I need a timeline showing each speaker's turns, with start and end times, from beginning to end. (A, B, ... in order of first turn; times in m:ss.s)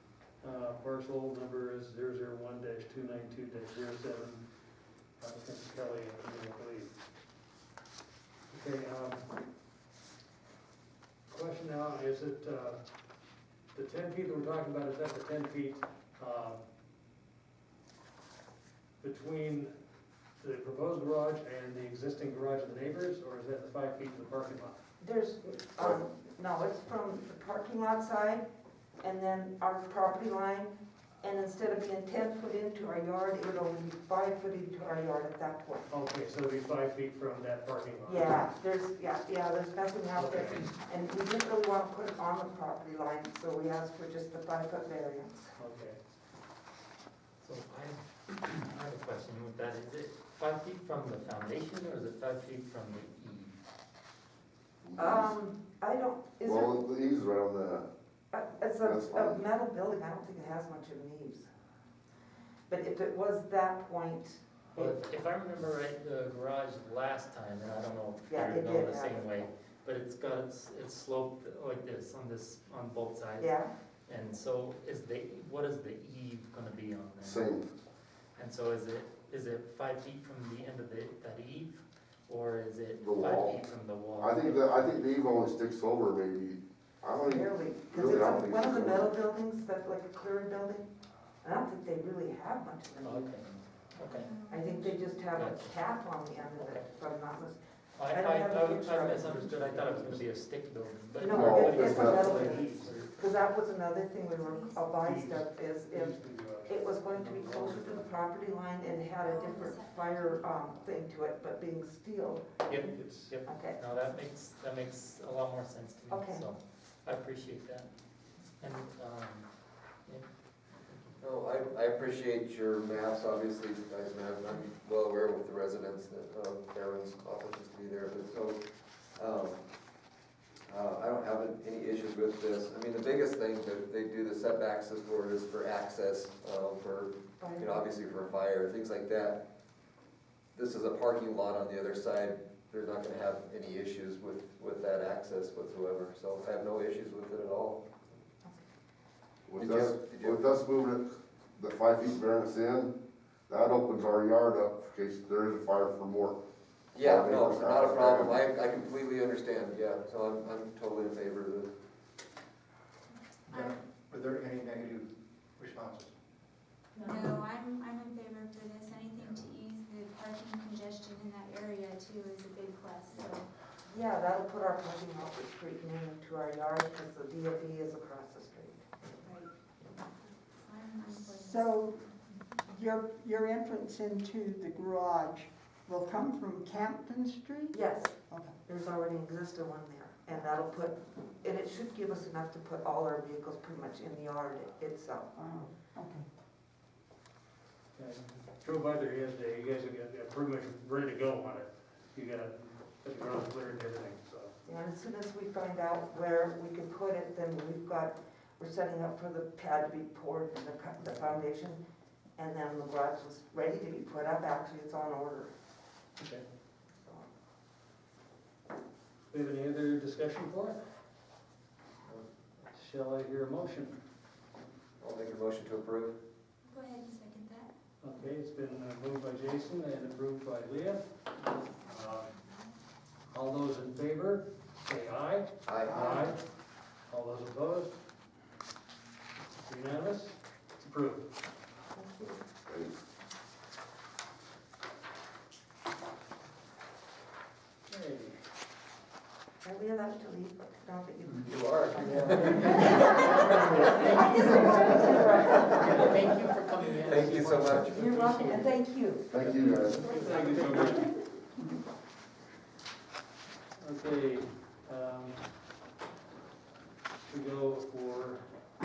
0:00.4-0:04.4 A
0:05.2-0:07.0 A
0:08.5-0:09.3 A
0:11.3-0:12.8 A
0:13.7-0:16.6 A
0:19.0-0:19.7 A
0:20.4-0:24.8 A
0:25.0-0:28.5 B
0:29.0-0:35.9 B
0:35.9-0:38.4 A
0:38.1-0:45.5 B
0:40.2-0:40.7 A
0:45.6-0:46.0 A
0:47.4-0:53.6 C
0:54.8-0:55.3 D
0:55.0-0:56.8 B
0:56.4-0:57.9 D
0:58.3-1:01.5 B
0:58.8-0:59.4 D
1:02.7-1:05.0 B
1:04.8-1:17.4 C
1:08.3-1:09.3 B
1:13.4-1:13.7 B
1:17.2-1:17.7 D
1:18.4-1:25.0 C
1:23.0-1:23.6 D
1:24.2-1:29.1 D
1:27.2-1:30.9 B
1:31.4-1:33.4 B
1:33.0-1:34.3 C
1:34.1-1:35.0 E
1:34.4-1:39.5 B
1:35.3-1:35.8 C
1:36.6-1:36.9 C
1:38.0-1:43.5 C
1:39.4-1:40.2 A
1:41.2-1:52.5 B
1:41.2-1:42.4 D
1:41.6-1:42.9 A
1:44.4-1:44.8 E
1:45.0-1:48.1 A
1:49.2-1:50.8 E
1:52.7-1:57.9 C
1:52.8-1:53.3 A
1:53.5-1:53.8 B
1:56.1-1:56.5 B
1:58.6-1:59.5 C
2:00.1-2:01.2 C
2:01.2-2:08.6 F
2:09.2-2:09.6 F
2:10.7-2:19.4 F
2:17.4-2:17.7 B
2:20.5-2:27.8 F
2:29.5-2:32.9 D
2:29.6-2:30.5 F
2:33.5-2:36.4 D
2:36.9-2:41.7 F
2:37.0-2:38.4 D
2:43.5-2:46.2 G
2:47.1-2:53.5 E
2:49.2-2:49.5 G
2:53.1-2:53.4 G
2:53.9-2:58.8 B
2:59.2-2:59.5 E
3:00.2-3:01.9 E
3:01.1-3:07.8 H
3:07.7-3:08.2 B
3:08.3-3:08.6 H
3:08.7-3:15.3 B
3:15.4-3:16.3 H
3:18.0-3:24.5 A
3:24.6-3:31.8 B
3:32.4-3:35.5 B
3:36.2-3:36.4 A
3:39.3-3:40.8 A
3:42.7-3:44.0 A
3:45.0-3:46.2 F
3:46.6-3:47.7 E
3:48.0-3:51.0 A
3:51.8-3:52.3 A
3:53.3-3:56.4 A
3:55.6-3:56.2 F
3:57.1-3:58.0 A
3:59.6-4:01.3 A
4:02.0-4:02.4 B
4:02.7-4:03.0 D
4:07.9-4:08.4 A
4:09.6-4:16.3 B
4:11.5-4:13.2 F
4:12.0-4:12.5 H
4:12.7-4:13.4 A
4:14.0-4:15.0 H
4:14.1-4:14.9 C
4:15.6-4:18.8 C
4:17.0-4:18.0 F
4:18.0-4:19.4 B
4:19.3-4:20.1 D
4:19.3-4:21.1 C
4:19.6-4:21.1 A
4:23.8-4:25.5 A
4:27.3-4:28.5 A